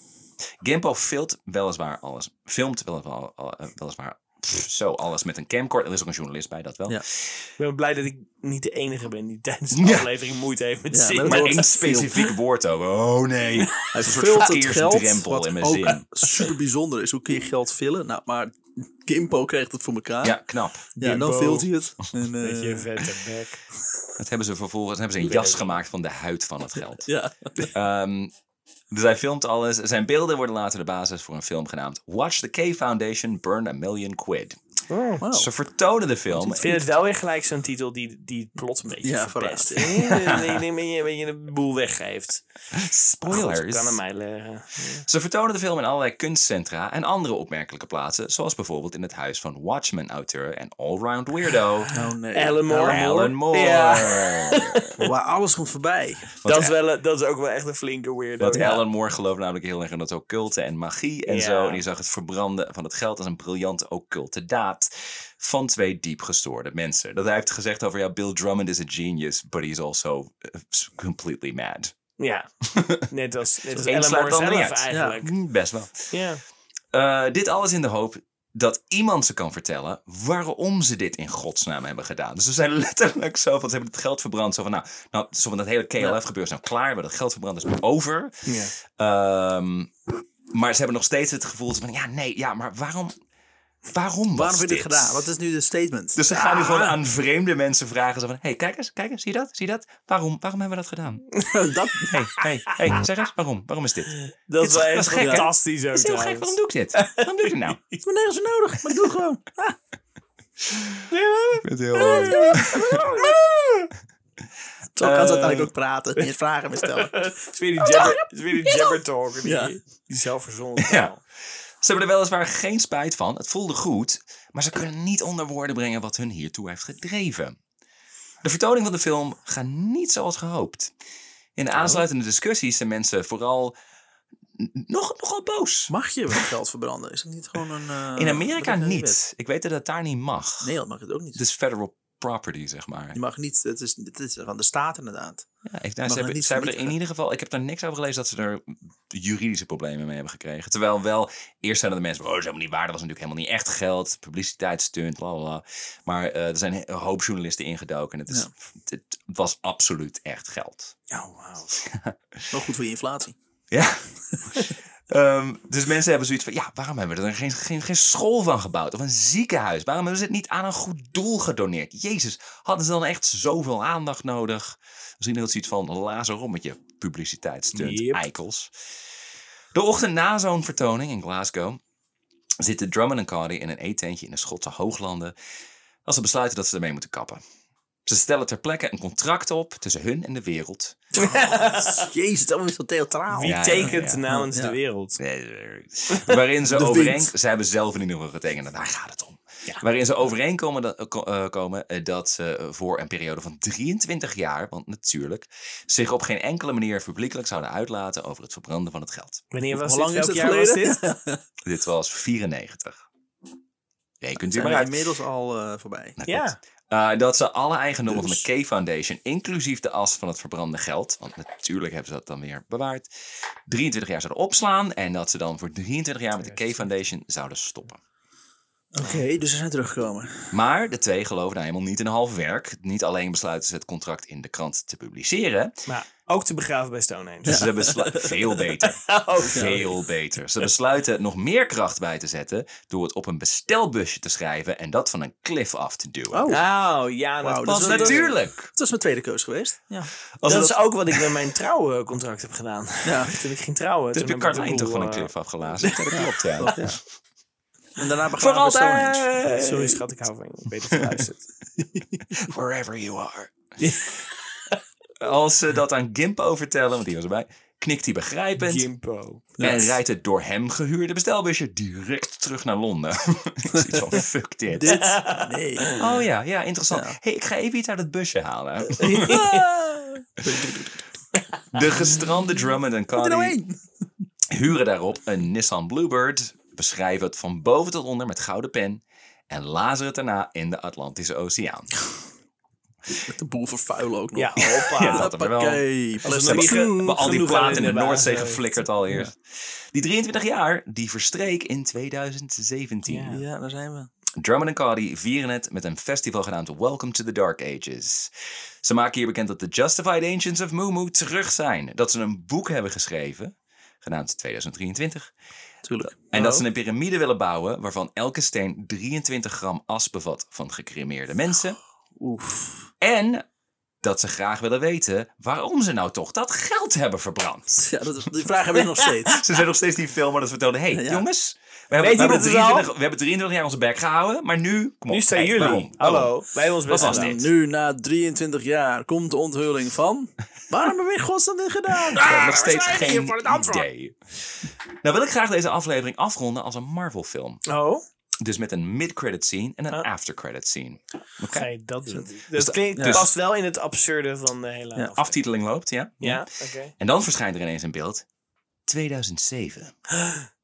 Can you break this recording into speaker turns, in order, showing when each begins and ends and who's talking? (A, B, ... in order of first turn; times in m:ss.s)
0:00.6-0:07.5 A
0:07.6-0:12.3 B
0:09.7-0:10.1 A
0:10.9-0:12.1 C
0:11.2-0:16.0 A
0:13.6-0:13.9 B
0:13.9-0:20.4 C
0:20.2-0:20.9 A
0:21.0-0:22.9 C
0:21.0-0:21.7 B
0:22.4-0:23.6 B
0:24.2-0:28.3 A
0:25.2-0:25.8 B
0:27.0-0:27.7 C
0:28.9-0:34.6 A
0:34.9-0:35.2 B
0:35.2-0:35.5 C
0:35.3-0:36.8 A
0:36.3-0:36.8 C
0:36.5-0:42.4 B
0:39.0-0:40.2 C
0:40.1-0:40.6 A
0:42.7-0:44.0 A
0:43.2-0:45.0 B
0:45.0-0:51.9 A
0:51.9-0:53.1 C
0:52.3-0:55.0 B
0:52.8-0:54.9 A
0:55.0-0:56.2 C
0:56.4-0:56.7 A
0:56.4-0:58.8 B
0:58.4-1:11.9 A
0:58.5-0:58.8 C
1:01.2-1:01.8 B
1:12.2-1:12.5 B
1:12.6-1:13.1 A
1:13.0-1:15.3 B
1:13.8-1:16.2 A
1:14.9-1:15.2 C
1:16.1-1:16.4 B
1:16.9-1:29.9 A
1:28.4-1:28.7 B
1:30.5-1:33.2 A
1:33.9-1:35.2 A
1:34.3-1:36.8 C
1:36.2-1:41.3 A
1:41.3-1:41.6 B
1:41.5-1:42.2 C
1:42.1-1:47.8 A
1:42.4-1:43.0 B
1:44.2-1:48.0 B
1:45.2-1:45.5 C
1:48.0-1:49.8 C
1:50.7-1:51.1 A
1:51.1-1:53.6 B
1:51.6-1:53.0 A
1:51.9-1:53.7 C
1:55.0-1:57.1 C
1:55.0-1:55.7 A
1:56.2-2:01.2 B
1:57.8-1:59.7 C
2:00.8-2:01.1 A
2:01.8-2:07.6 A
2:08.4-2:10.9 A
2:11.6-2:13.7 A
2:11.7-2:12.0 C
2:14.6-2:16.4 A
2:15.9-2:19.2 C
2:18.1-2:20.7 A
2:20.6-2:21.4 C
2:21.4-2:23.2 A
2:23.1-2:25.4 C
2:25.6-2:40.9 A
2:26.0-2:26.9 C
2:41.1-2:41.7 B
2:41.8-2:42.4 A
2:42.5-2:43.4 C
2:43.7-2:58.7 A
2:57.7-2:58.2 B
2:59.7-3:01.8 A
3:02.6-3:05.3 A
3:06.0-3:07.4 A
3:08.0-3:11.0 A
3:11.2-3:14.7 C
3:11.2-3:12.0 B
3:13.3-3:15.2 B
3:13.4-3:14.2 A
3:15.2-3:29.4 A
3:16.6-3:17.3 C
3:29.5-3:31.0 B
3:29.7-3:31.4 C
3:31.6-3:33.0 A
3:34.2-3:35.0 A
3:34.4-3:36.2 C
3:36.2-3:43.1 A
3:36.3-3:36.6 B
3:38.1-3:38.4 C
3:43.7-3:48.0 A
3:46.4-3:46.8 B
3:48.9-3:50.5 C
3:50.5-3:55.8 A
3:55.9-4:00.0 B
3:57.4-4:06.5 A
3:57.5-3:58.3 C
3:59.5-3:59.7 C
4:06.3-4:06.6 C
4:06.5-4:08.3 B
4:07.4-4:10.1 C
4:07.6-4:08.7 A
4:10.4-4:11.4 A
4:10.5-4:16.7 B
4:13.0-4:13.3 C
4:14.1-4:16.8 A
4:16.1-4:17.0 C
4:18.0-4:20.0 C
4:18.4-4:19.4 A
4:19.0-4:21.5 B
4:20.9-4:21.2 A
4:21.8-4:22.3 C
4:22.3-4:23.5 A
4:23.8-4:24.8 B
4:25.2-4:28.9 A
4:28.6-4:29.5 B
4:29.6-4:30.0 C
4:29.6-4:35.2 A
4:33.7-4:36.0 C
4:34.8-4:36.0 B
4:35.9-4:39.5 A
4:36.9-4:37.1 C
4:39.0-4:41.1 C
4:39.0-4:39.6 B
4:41.7-4:43.6 A
4:43.1-4:43.8 C
4:44.5-4:51.9 A
4:53.2-4:58.0 C
4:54.4-4:55.3 B
4:54.6-4:55.8 A
4:56.2-4:58.6 B
4:56.3-5:03.4 A
5:03.0-5:03.4 B
5:03.3-5:04.1 C
5:04.4-5:08.3 A
5:08.8-5:15.3 A
5:15.8-5:16.5 C
5:16.1-5:21.8 A
5:16.3-5:16.6 B
5:22.2-5:22.9 C
5:23.0-5:23.4 A
5:24.0-5:27.9 A
5:27.8-5:29.4 C
5:29.1-5:29.4 B
5:29.3-5:36.3 A
5:30.9-5:31.2 C
5:32.0-5:32.9 B
5:35.1-5:37.4 B
5:35.6-5:35.9 C
5:36.9-5:43.9 C
5:36.9-5:37.5 A
5:42.1-5:47.6 A
5:47.6-5:48.0 B
5:48.4-5:51.7 A
5:51.5-5:55.3 B
5:52.5-5:53.3 A
5:52.9-5:53.2 C
5:55.2-5:56.5 A
5:56.2-5:56.9 B
5:57.0-5:58.2 A
5:58.9-5:59.9 A
6:00.2-6:00.5 B